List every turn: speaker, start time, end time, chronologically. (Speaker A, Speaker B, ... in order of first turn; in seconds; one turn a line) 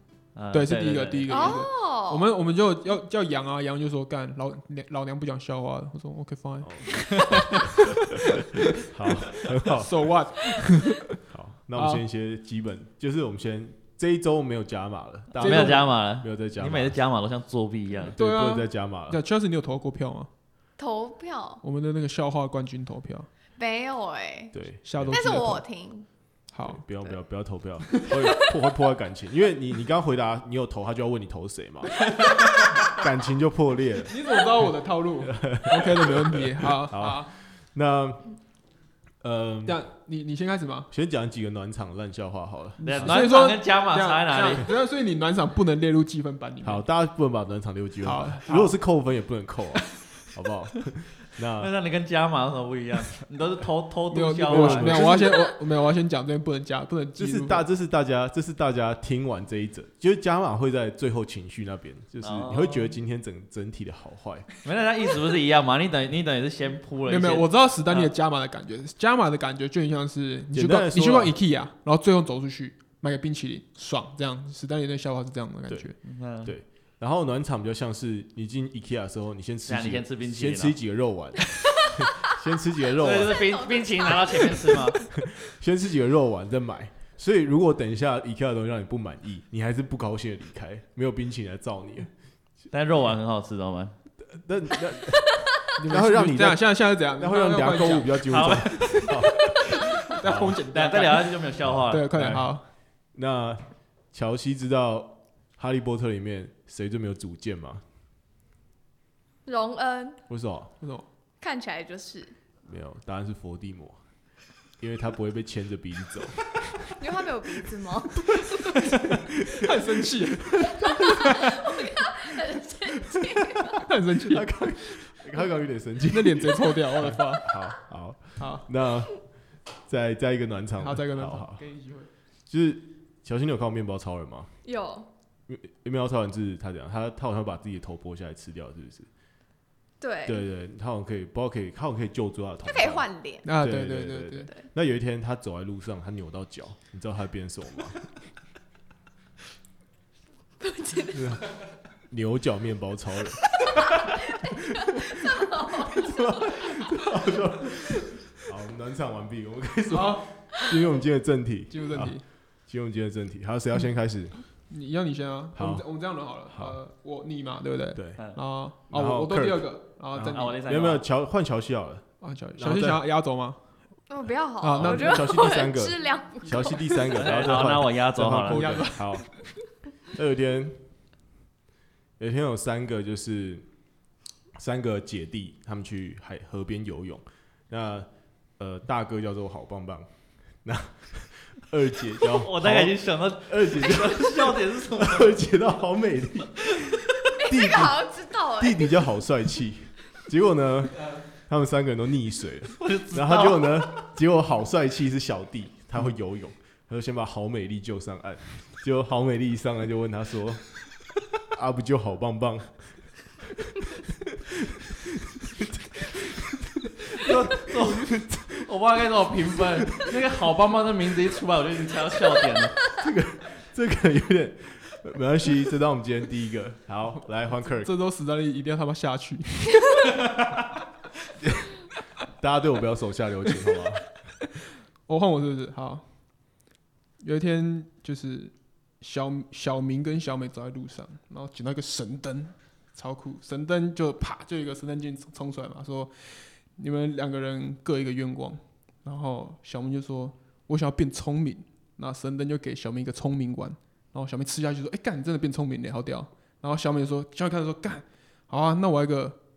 Speaker A: 0.3-1.6
Speaker B: 0.5-6.7
Speaker C: 1.3-2.3
Speaker D: 6.6-7.0
Speaker D: 8.7-10.1
Speaker B: 9.7-11.0
Speaker D: 11.3-17.0
Speaker B: 11.7-12.0
Speaker B: 15.3-15.8
Speaker A: 15.4-18.1
Speaker D: 18.1-19.2
Speaker B: 18.1-20.3
Speaker C: 20.8-21.6
Speaker B: 21.6-23.3
Speaker C: 23.6-24.6
Speaker D: 24.5-25.4
Speaker B: 24.8-25.6
Speaker C: 25.1-26.1
Speaker B: 26.5-26.8
Speaker D: 26.6-34.7
Speaker B: 32.1-32.5
Speaker B: 34.0-37.3
Speaker D: 35.2-38.3
Speaker D: 39.2-39.8
Speaker B: 39.6-40.9
Speaker D: 40.9-43.2
Speaker B: 42.8-46.8
Speaker A: 42.8-44.6
Speaker D: 46.6-51.7
Speaker B: 48.0-48.7
Speaker A: 51.6-55.3
Speaker B: 54.1-57.7
Speaker D: 54.5-55.3
Speaker D: 57.2-64.5
Speaker A: 62.2-62.9
Speaker A: 64.6-68.1
Speaker B: 67.0-76.0
Speaker D: 70.5-71.3
Speaker A: 76.0-76.5
Speaker D: 76.4-83.6
Speaker A: 79.7-80.8
Speaker A: 83.0-85.0
Speaker C: 83.1-84.8
Speaker D: 85.1-92.1
Speaker A: 92.7-93.9
Speaker D: 94.2-96.6
Speaker B: 95.8-98.1
Speaker D: 97.2-100.6
Speaker A: 98.2-99.1
Speaker B: 99.8-101.3
Speaker A: 100.7-102.1
Speaker D: 101.6-102.5
Speaker B: 101.9-102.7
Speaker D: 103.1-107.8
Speaker C: 109.4-110.2
Speaker D: 110.3-110.7
Speaker B: 110.8-111.0
Speaker C: 111.4-112.3
Speaker D: 112.6-114.0
Speaker D: 114.8-116.8
Speaker C: 116.9-118.7
Speaker B: 118.8-120.7
Speaker C: 120.9-123.8
Speaker B: 123.8-124.5
Speaker D: 124.2-129.3
Speaker B: 126.1-127.5
Speaker B: 128.4-128.7
Speaker D: 129.8-131.6
Speaker B: 130.8-132.1
Speaker D: 132.5-134.5
Speaker C: 134.6-135.1
Speaker D: 135.5-139.1
Speaker C: 140.0-140.4
Speaker D: 140.2-148.1
Speaker C: 142.7-143.5
Speaker B: 143.4-144.5
Speaker C: 150.6-151.3
Speaker D: 151.1-151.5
Speaker D: 152.1-153.9
Speaker C: 154.4-157.2
Speaker D: 155.3-164.3
Speaker B: 159.9-160.3
Speaker B: 161.7-162.2
Speaker B: 164.7-170.6
Speaker D: 165.6-165.8
Speaker D: 166.5-166.8
Speaker D: 167.9-168.2
Speaker D: 168.9-172.0
Speaker A: 170.3-171.0
Speaker B: 172.2-173.6
Speaker D: 172.6-173.0
Speaker C: 174.1-176.9
Speaker B: 174.6-175.4
Speaker D: 174.8-179.3
Speaker B: 176.6-176.9
Speaker A: 177.1-178.8
Speaker B: 178.5-179.3
Speaker D: 180.1-180.8
Speaker D: 182.2-183.7
Speaker D: 184.5-190.1
Speaker D: 190.6-210.7
Speaker A: 192.3-195.4
Speaker C: 197.2-199.1
Speaker A: 202.8-203.9
Speaker D: 211.4-213.1
Speaker D: 215.3-218.4
Speaker A: 217.1-222.8
Speaker D: 222.9-227.9
Speaker B: 227.6-230.1
Speaker D: 232.3-234.1
Speaker B: 235.1-236.0
Speaker B: 237.2-259.4